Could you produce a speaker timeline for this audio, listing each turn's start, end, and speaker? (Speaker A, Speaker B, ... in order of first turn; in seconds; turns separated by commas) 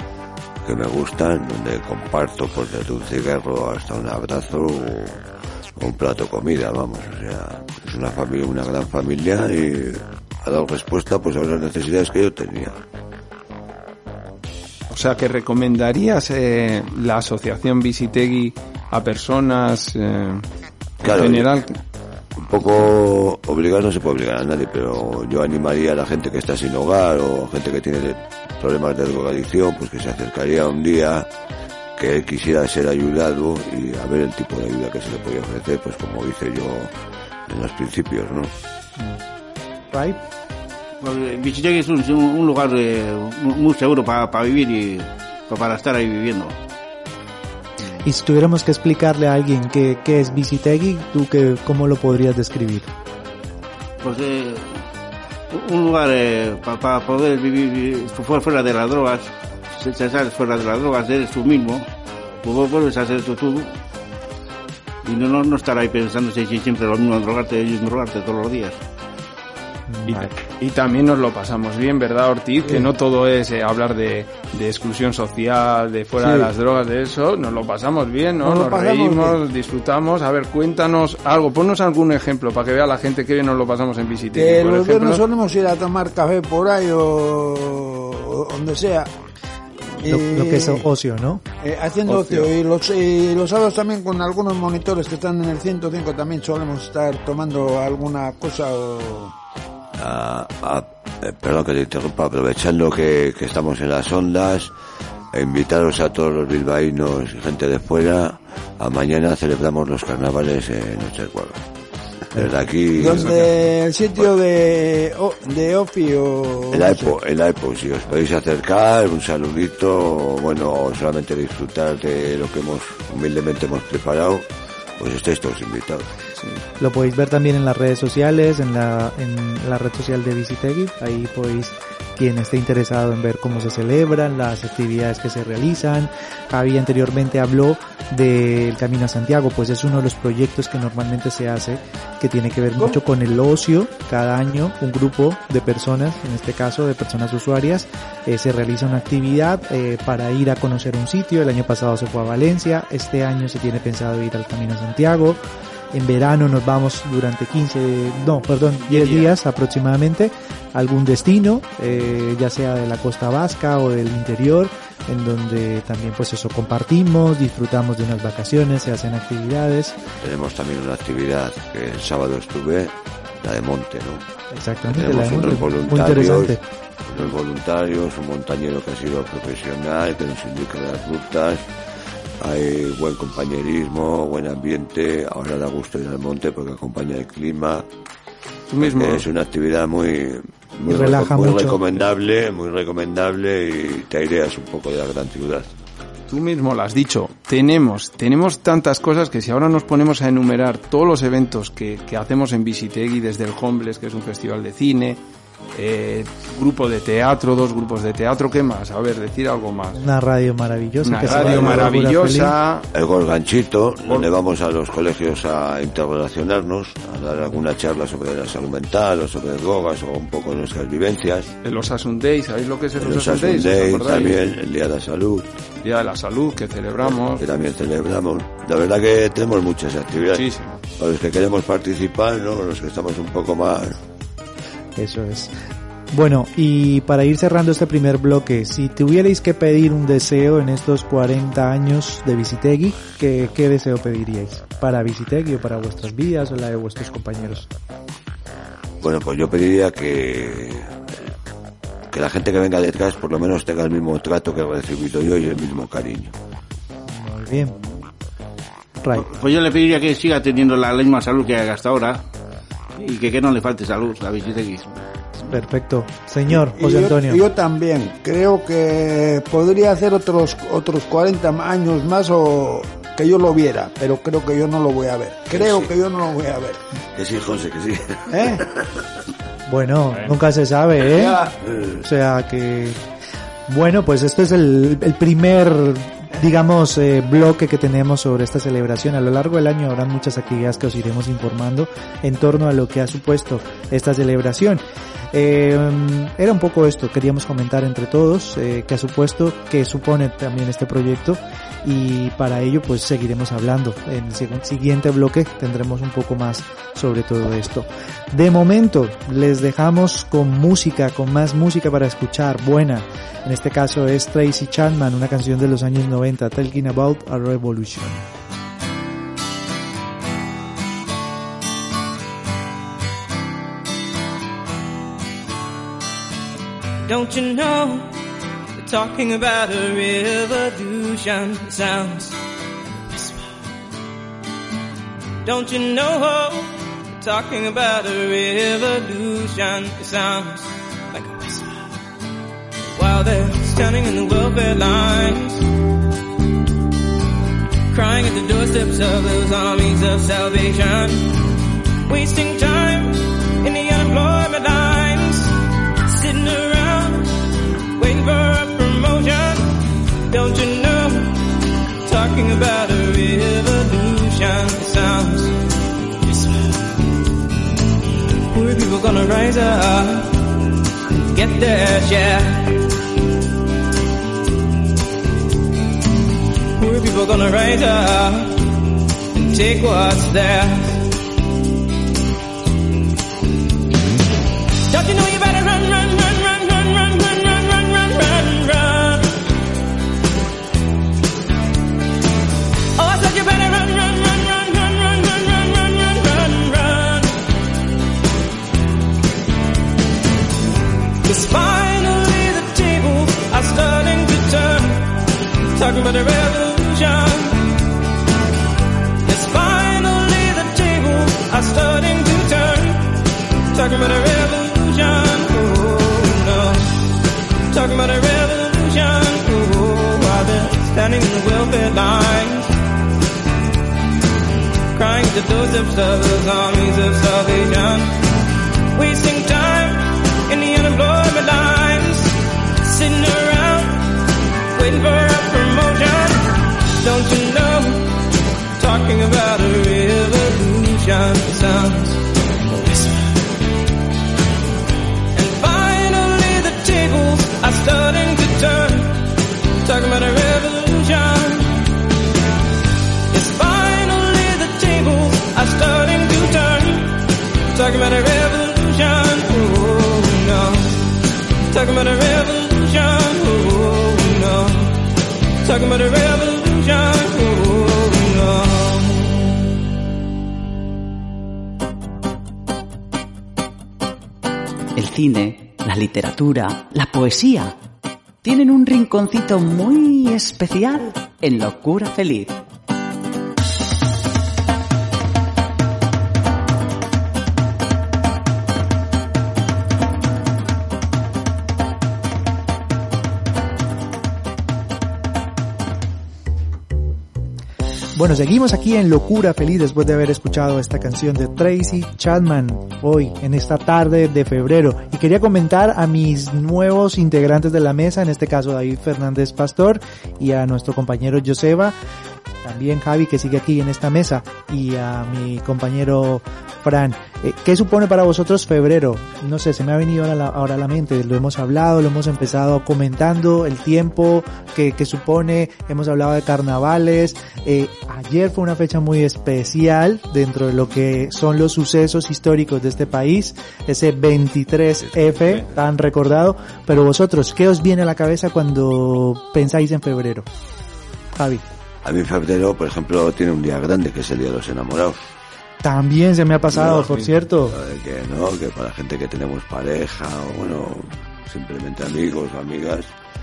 Speaker A: 0.6-5.2, Speaker A: 5.8-12.8, Speaker B: 14.9-20.5, Speaker A: 21.0-21.5, Speaker B: 21.1-21.8, Speaker A: 22.4-31.3, Speaker A: 32.0-36.9, Speaker A: 37.5-38.5, Speaker C: 39.9-40.2, Speaker D: 41.0-46.6, Speaker C: 48.0-52.9, Speaker D: 54.0-54.9, Speaker D: 55.5-61.9, Speaker D: 62.4-63.8, Speaker D: 65.0-68.8, Speaker C: 69.9-70.3, Speaker B: 70.1-85.2, Speaker E: 76.2-76.5, Speaker E: 78.4-79.4, Speaker E: 84.3-89.1, Speaker E: 90.0-90.8, Speaker C: 90.0-91.4, Speaker E: 91.6-99.3, Speaker B: 92.1-92.5, Speaker A: 100.0-104.7, Speaker A: 105.3-111.6, Speaker A: 112.3-113.4, Speaker E: 112.9-117.1, Speaker A: 116.7-126.1, Speaker C: 126.8-155.4, Speaker C: 155.9-170.0, Speaker D: 158.9-159.4, Speaker A: 170.2-174.2, Speaker C: 174.5-176.6, Speaker A: 174.9-181.7, Speaker A: 182.4-187.9, Speaker B: 188.7-189.3, Speaker A: 188.8-195.7, Speaker C: 190.9-191.8, Speaker B: 196.3-205.2, Speaker B: 205.8-210.0, Speaker C: 210.0-212.6, Speaker B: 211.0-212.9, Speaker A: 211.3-211.9, Speaker A: 212.9-221.5, Speaker B: 221.6-224.4, Speaker A: 223.0-225.5, Speaker B: 225.8-227.4, Speaker A: 227.2-234.0, Speaker B: 230.3-230.8, Speaker C: 235.0-235.6, Speaker C: 236.1-247.7, Speaker A: 249.0-251.3, Speaker A: 252.1-256.4, Speaker C: 257.1-257.8, Speaker C: 259.0-259.3, Speaker D: 259.1-262.2, Speaker D: 263.0-264.9, Speaker C: 265.5-267.4, Speaker E: 266.5-276.8, Speaker A: 275.5-275.9, Speaker A: 277.1-279.0, Speaker E: 278.3-278.6, Speaker C: 279.7-281.4, Speaker E: 281.1-281.5, Speaker A: 281.6-281.9, Speaker C: 282.0-283.0, Speaker C: 283.7-318.2, Speaker F: 327.1-328.1, Speaker F: 328.8-332.4, Speaker F: 335.4-341.8, Speaker F: 342.9-345.7, Speaker F: 347.9-351.4, Speaker F: 352.1-355.6, Speaker F: 356.1-357.4, Speaker F: 357.9-359.7, Speaker F: 360.3-361.5, Speaker F: 362.0-365.6, Speaker F: 368.5-370.5, Speaker F: 371.2-372.8, Speaker F: 376.8-378.7, Speaker F: 379.3-381.1, Speaker F: 384.9-389.4, Speaker F: 393.0-397.4, Speaker F: 401.2-405.2, Speaker F: 405.7-407.7, Speaker F: 409.2-416.9, Speaker F: 417.7-422.7, Speaker F: 424.9-428.2, Speaker F: 428.9-434.1, Speaker F: 434.7-438.1, Speaker F: 438.8-443.3, Speaker F: 445.4-451.9, Speaker F: 453.3-461.0, Speaker F: 461.7-465.1, Speaker F: 465.6-469.3, Speaker G: 475.0-477.8, Speaker G: 478.4-482.6, Speaker C: 498.2-511.9, Speaker C: 512.6-540.5, Speaker B: 535.4-535.6, Speaker C: 541.3-541.6, Speaker A: 542.0-545.3, Speaker C: 545.8-547.8, Speaker A: 546.7-547.1, Speaker A: 547.7-553.1